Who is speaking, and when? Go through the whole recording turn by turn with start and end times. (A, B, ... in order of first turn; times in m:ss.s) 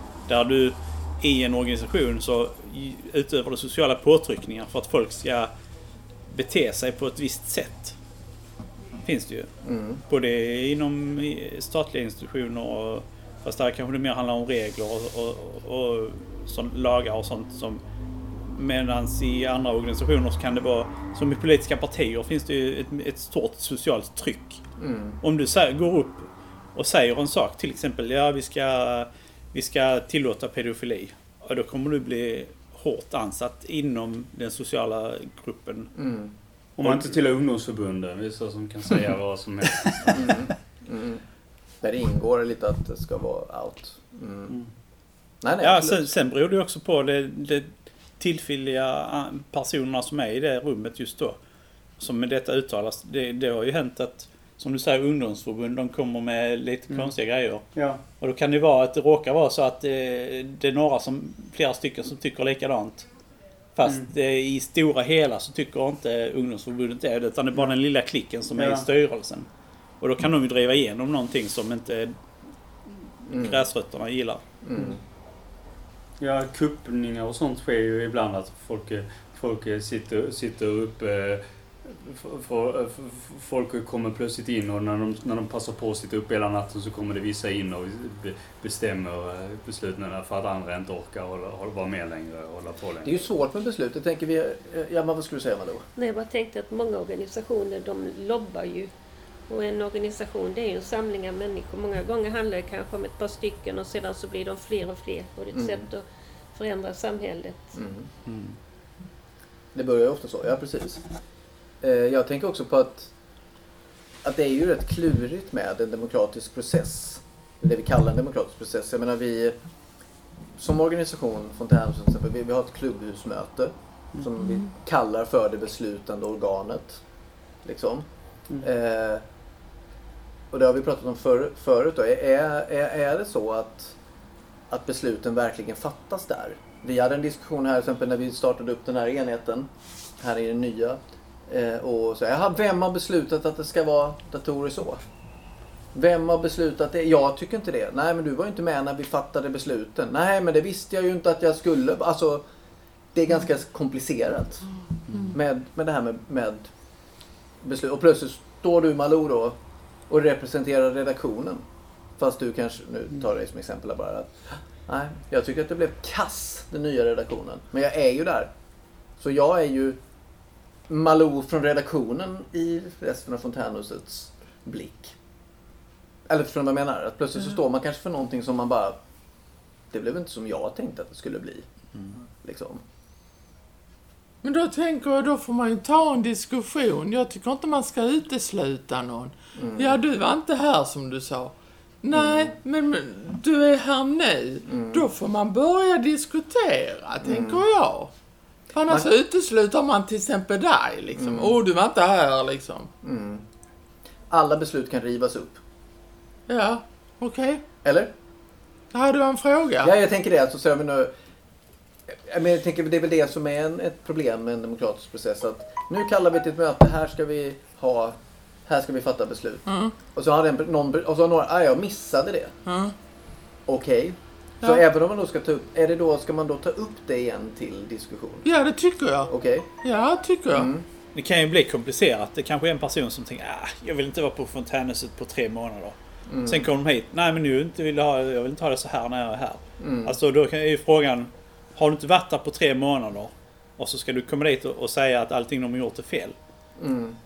0:00.3-0:05.5 A
0:06.3-0:08.0 A
0:09.0-0:09.5 A
0:09.6-0:10.0 B
0:10.1-0:17.8 A
0:18.3-0:24.6 A
0:24.8-0:25.2 B
0:25.2-0:35.9 A
0:35.9-0:36.3 B
0:36.8-0:40.5 C
0:40.1-0:41.2 B
0:41.8-0:44.6 B
0:45.4-0:46.1 B
0:45.6-0:51.4 A
0:52.0-0:57.6 A
0:57.7-0:58.0 C
0:58.2-1:03.1 A
1:03.7-1:09.5 A
1:08.5-1:08.9 C
1:10.0-1:12.2 A
1:12.9-1:14.4 A
1:13.3-1:13.6 B
1:14.6-1:15.0 B
1:16.2-1:33.2 C
1:33.0-1:35.8 B
1:36.0-1:38.9 D
1:39.5-1:47.8 D
1:45.5-1:45.9 B
1:47.7-1:48.1 B
1:48.2-1:48.6 A
1:49.7-1:51.0 B
1:51.8-1:53.1 B
1:54.2-1:59.6 B
2:00.6-2:07.0 B
2:07.6-2:08.1 B
2:08.6-2:09.2 B
2:10.5-2:14.0 B
2:14.7-2:19.7 B
2:20.2-2:25.0 B
2:25.9-2:32.4 B
2:33.1-2:34.7 B
2:35.3-2:36.7 B
2:37.6-2:39.6 B
2:40.1-2:41.6 B
2:42.2-2:48.5 B
2:49.2-2:50.0 B
2:50.9-2:55.1 B
2:56.3-2:59.0 B
2:59.9-3:01.6 B
3:02.4-3:02.8 B
3:04.4-3:18.1 E
3:09.6-3:10.0 B
3:12.1-3:12.5 B
3:14.7-3:15.1 B
3:17.2-3:17.6 B
3:18.7-3:22.9 E
3:21.1-3:21.5 B
3:23.0-3:23.4 B
3:24.3-3:25.6 B
3:26.5-3:27.6 E
3:27.8-3:28.1 B
3:28.9-3:29.9 E
3:29.8-3:31.1 B
3:32.1-3:42.5 B
3:39.6-3:39.9 E
3:42.6-3:42.9 E
3:43.7-3:48.5 B
3:48.4-3:49.3 E
3:49.3-3:49.7 B
3:49.8-3:50.7 E
3:50.5-3:50.8 B
3:51.1-4:06.4 A
3:56.3-3:56.7 B
3:59.8-4:00.2 B
4:06.8-4:07.2 B